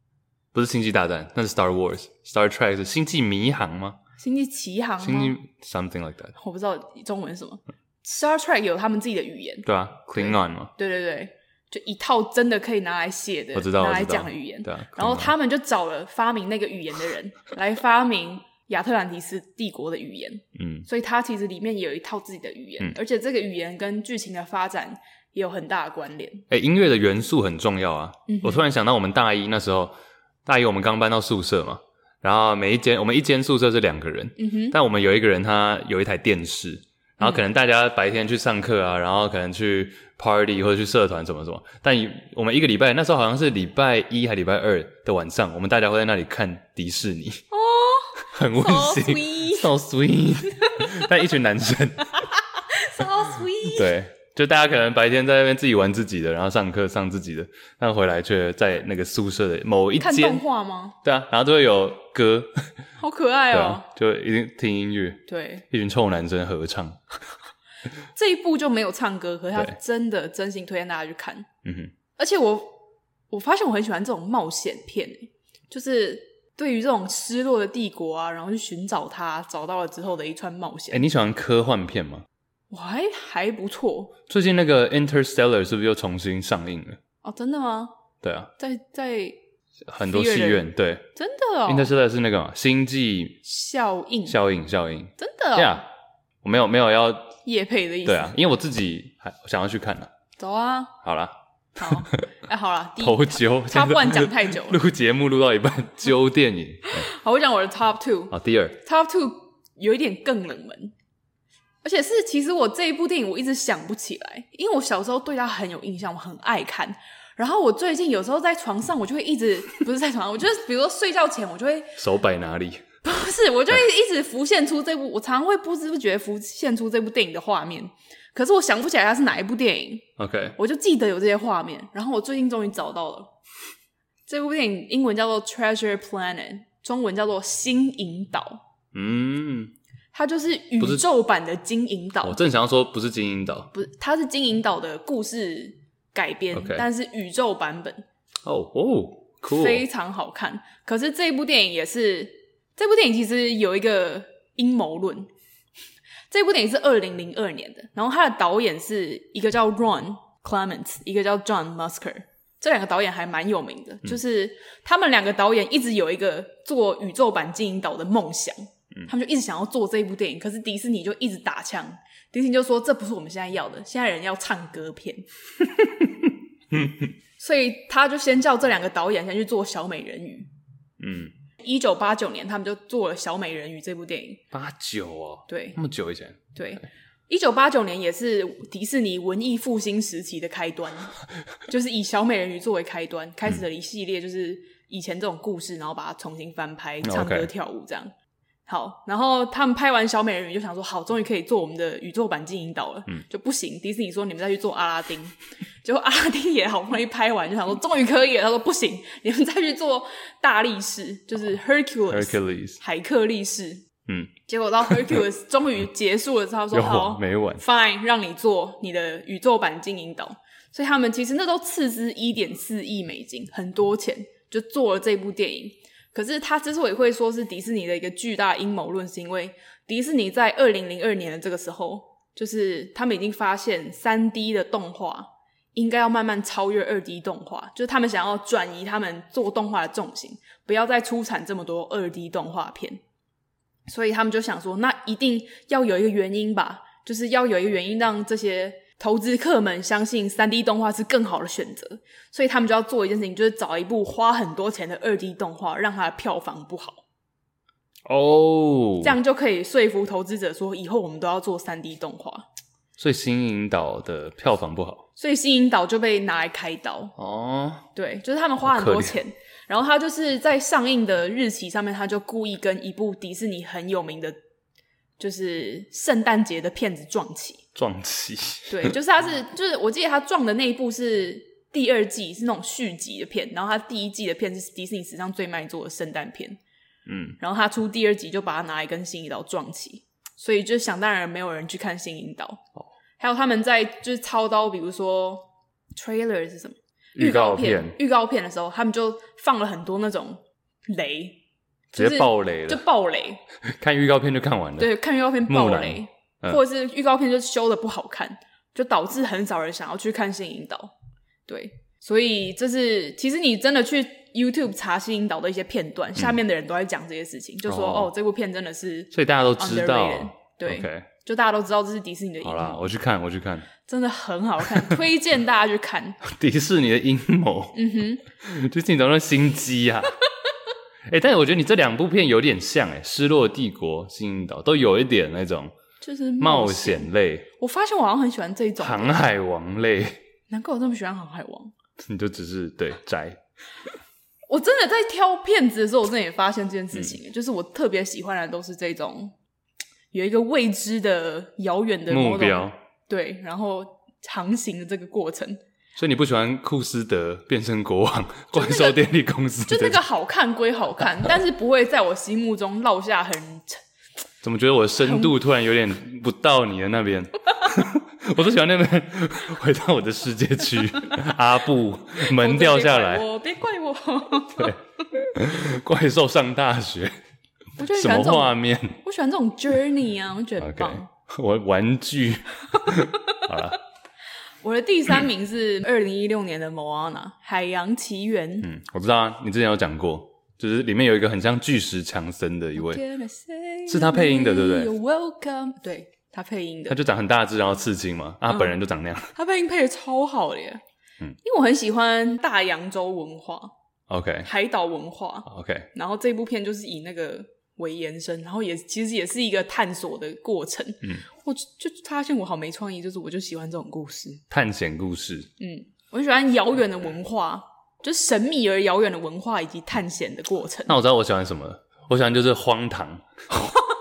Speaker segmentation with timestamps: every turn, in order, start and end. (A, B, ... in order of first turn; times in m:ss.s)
0:00.5-0:04.0 A
0:04.2-0:05.4 B
0:05.0-0:06.4 A
0:06.4-0:26.4 B
0:09.6-0:10.7 A
0:13.5-0:15.3 A
0:20.6-0:20.9 A
0:26.5-0:47.5 A
0:28.3-0:28.7 B
0:34.4-0:34.8 B
0:47.5-0:49.7 B
0:48.2-0:52.3 A
0:50.7-0:51.1 B
0:52.4-0:53.9 B
0:53.6-1:00.4 A
1:00.0-1:01.0 B
1:01.0-1:02.7 A
1:03.0-1:03.9 B
1:03.5-1:07.0 A
1:05.3-1:05.6 B
1:08.1-1:11.5 B
1:11.6-1:11.9 A
1:12.2-1:21.0 B
1:20.9-1:22.3 A
1:22.7-1:24.2 B
1:24.3-1:27.0 A
1:27.2-1:28.0 B
1:28.2-1:28.5 A
1:28.6-1:29.4 B
1:29.9-1:31.1 A
1:30.0-1:31.9 B
1:31.7-1:33.4 A
1:33.4-1:34.4 B
1:34.3-1:35.9 A
1:35.2-1:35.8 B
1:36.4-1:37.4 A
1:37.4-1:38.4 B
1:38.0-1:40.1 A
1:40.4-1:41.0 B
1:41.0-1:42.3 A
1:41.8-1:44.8 B
1:43.0-1:47.1 A
1:46.9-1:50.9 B
1:48.3-1:48.8 A
1:51.8-2:02.0 B
2:02.0-2:02.9 A
2:03.0-2:13.3 B
2:10.2-2:10.6 A
2:14.3-2:18.6 B
2:18.9-2:19.7 A
2:20.1-2:22.4 B
2:22.2-2:23.7 A
2:23.7-2:28.1 B
2:26.5-2:26.9 A
2:28.4-2:29.8 A
2:29.5-2:35.3 B
2:36.3-2:55.3 B
2:56.7-2:57.1 A
2:57.4-3:00.5 B
3:01.0-3:01.3 A
3:01.6-3:04.5 B
3:04.5-3:06.5 A
3:05.5-3:05.8 B
3:06.6-3:11.2 B
3:11.7-3:18.1 B
3:17.0-3:17.5 A
3:18.7-3:33.9 B
3:32.1-3:32.8 A
3:34.4-4:03.0 B
3:36.7-3:37.6 A
4:03.9-4:17.0 B
4:18.1-4:19.2 A
4:19.0-4:22.5 B
4:23.0-4:25.0 A
4:25.2-4:27.2 B
4:27.2-4:27.9 A
4:28.0-4:34.4 B
4:28.6-4:29.2 A
4:35.2-4:37.6 B
4:37.8-4:39.0 A
4:38.7-4:46.6 B
4:47.1-4:47.4 A
4:47.4-4:52.7 B
4:53.2-5:01.4 B
4:57.2-4:58.0 A
5:01.9-5:02.8 A
5:01.9-5:03.4 B
5:03.7-5:04.9 A
5:04.8-5:10.9 B
5:05.5-5:06.6 A
5:11.5-5:22.9 B
5:17.7-5:18.1 A
5:19.1-5:21.1 A
5:22.4-5:23.7 A
5:23.8-5:26.2 B
5:26.2-5:30.2 A
5:27.7-5:28.2 B
5:31.1-5:35.7 A
5:36.0-5:39.2 B
5:36.4-5:37.5 A
5:38.8-5:40.2 A
5:40.5-5:41.7 B
5:42.0-5:43.4 A
5:44.5-5:49.4 B
5:50.1-5:55.6 B
5:52.1-5:52.8 A
5:56.0-6:00.0 A
5:58.5-5:59.0 B
5:59.7-6:03.8 B
6:04.4-6:13.2 A
6:05.0-6:05.3 B
6:12.2-6:14.8 B
6:14.6-6:17.2 A
6:17.8-6:21.1 B
6:17.9-6:19.0 A
6:20.6-6:23.8 A
6:24.6-6:28.7 B
6:28.6-6:33.0 A
6:32.8-6:37.0 B
6:33.9-6:34.9 A
6:36.9-6:39.3 A
6:39.4-6:40.8 B
6:41.4-6:43.7 B
6:44.1-6:44.5 A
6:44.4-6:54.4 B
6:45.5-6:45.9 A
6:54.5-6:55.5 A
6:55.6-7:01.0 B
7:00.9-7:03.8 A